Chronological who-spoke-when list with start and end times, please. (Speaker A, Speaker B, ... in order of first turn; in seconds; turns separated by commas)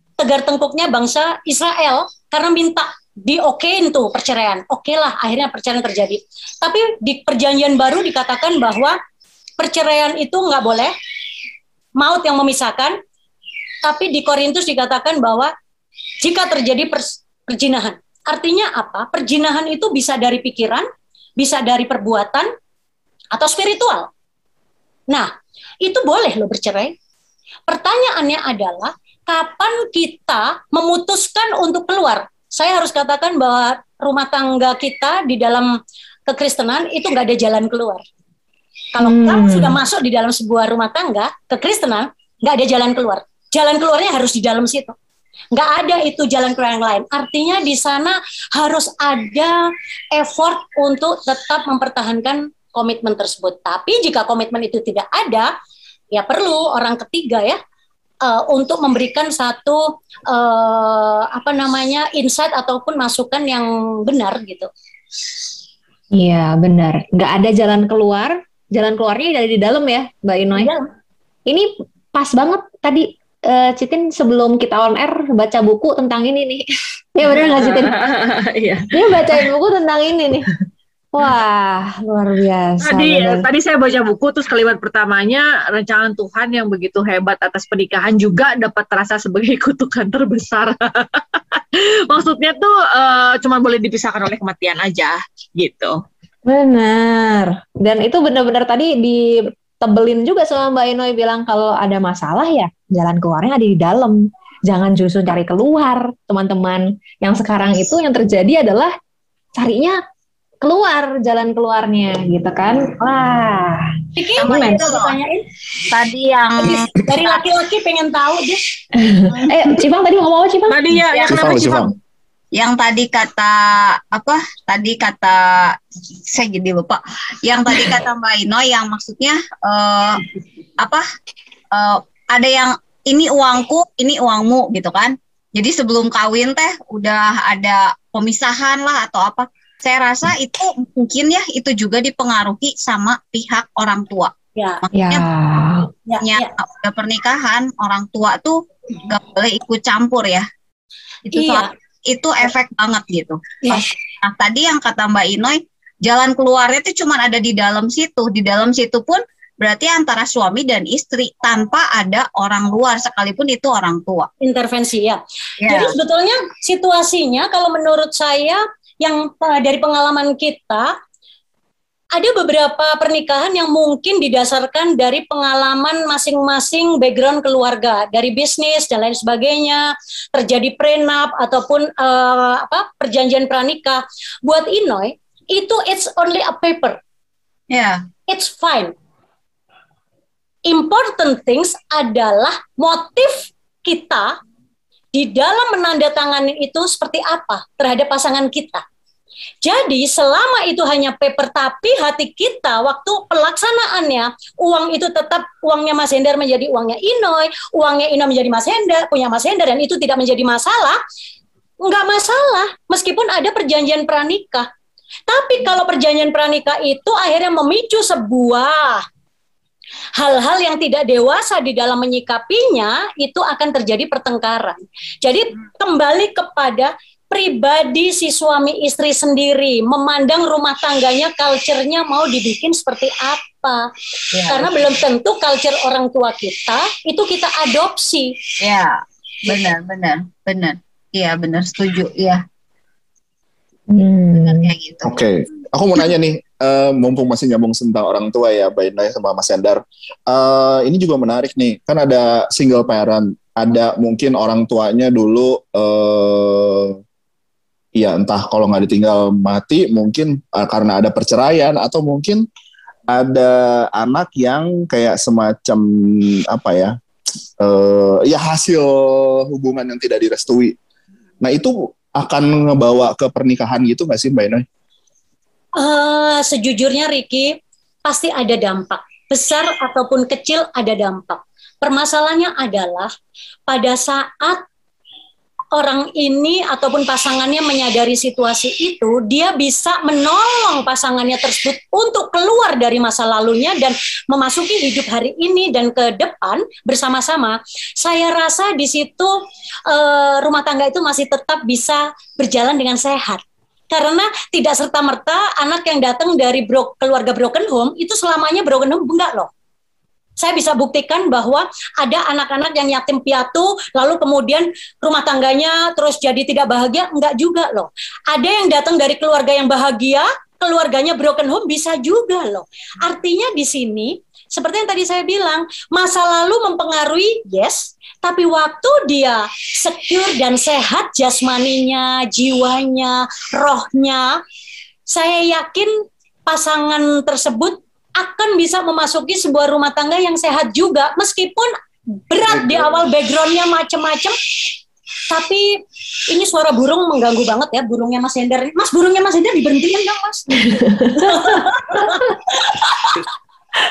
Speaker A: 0.2-9.0, Speaker A: 9.6-10.9, Speaker A: 12.0-12.9, Speaker A: 13.8-15.5, Speaker A: 16.2-22.5, Speaker A: 23.3-24.1, Speaker A: 25.8-26.9, Speaker A: 27.7-35.7, Speaker A: 36.3-38.0, Speaker A: 38.9-44.9, Speaker B: 39.0-39.8, Speaker A: 45.5-55.5, Speaker A: 56.1-57.6, Speaker A: 58.2-64.7, Speaker B: 66.2-70.7, Speaker A: 70.5-70.9, Speaker B: 71.5-76.6, Speaker B: 77.1-77.9, Speaker C: 77.3-79.4, Speaker B: 78.9-80.5, Speaker B: 81.1-83.5, Speaker C: 82.8-96.0, Speaker B: 96.5-99.2, Speaker B: 99.8-108.9, Speaker B: 109.6-110.0, Speaker B: 110.6-114.8, Speaker A: 114.2-115.4, Speaker D: 114.4-115.2, Speaker D: 115.9-117.4, Speaker A: 116.6-118.7, Speaker B: 119.0-120.8, Speaker D: 119.4-119.6, Speaker C: 120.7-121.9, Speaker E: 121.3-121.9, Speaker D: 122.5-130.2, Speaker D: 130.8-131.1, Speaker D: 131.7-145.2, Speaker A: 144.6-144.8, Speaker B: 144.9-145.9, Speaker A: 146.1-146.5, Speaker D: 146.2-150.5, Speaker D: 151.3-164.3, Speaker A: 151.3-151.7, Speaker A: 153.6-153.9, Speaker A: 164.4-170.9, Speaker D: 165.6-166.0, Speaker A: 172.1-187.0, Speaker D: 187.7-188.0, Speaker A: 188.3-188.9, Speaker A: 190.7-194.4, Speaker A: 195.1-198.8, Speaker A: 199.6-211.0, Speaker A: 211.8-214.7, Speaker A: 215.3-219.0, Speaker A: 220.2-233.9, Speaker D: 234.3-234.9, Speaker A: 234.5-238.3, Speaker D: 238.6-242.4, Speaker B: 243.9-244.7, Speaker D: 244.4-245.1, Speaker E: 245.0-257.0, Speaker E: 257.9-262.4, Speaker E: 263.1-266.9, Speaker E: 267.6-270.8, Speaker E: 271.4-274.6, Speaker A: 275.8-283.1, Speaker A: 283.7-284.6, Speaker A: 285.7-299.4, Speaker A: 299.9-309.5, Speaker A: 310.4-334.4, Speaker A: 335.1-335.9, Speaker A: 336.4-344.4, Speaker A: 345.3-350.5, Speaker B: 350.5-351.6, Speaker A: 351.1-353.2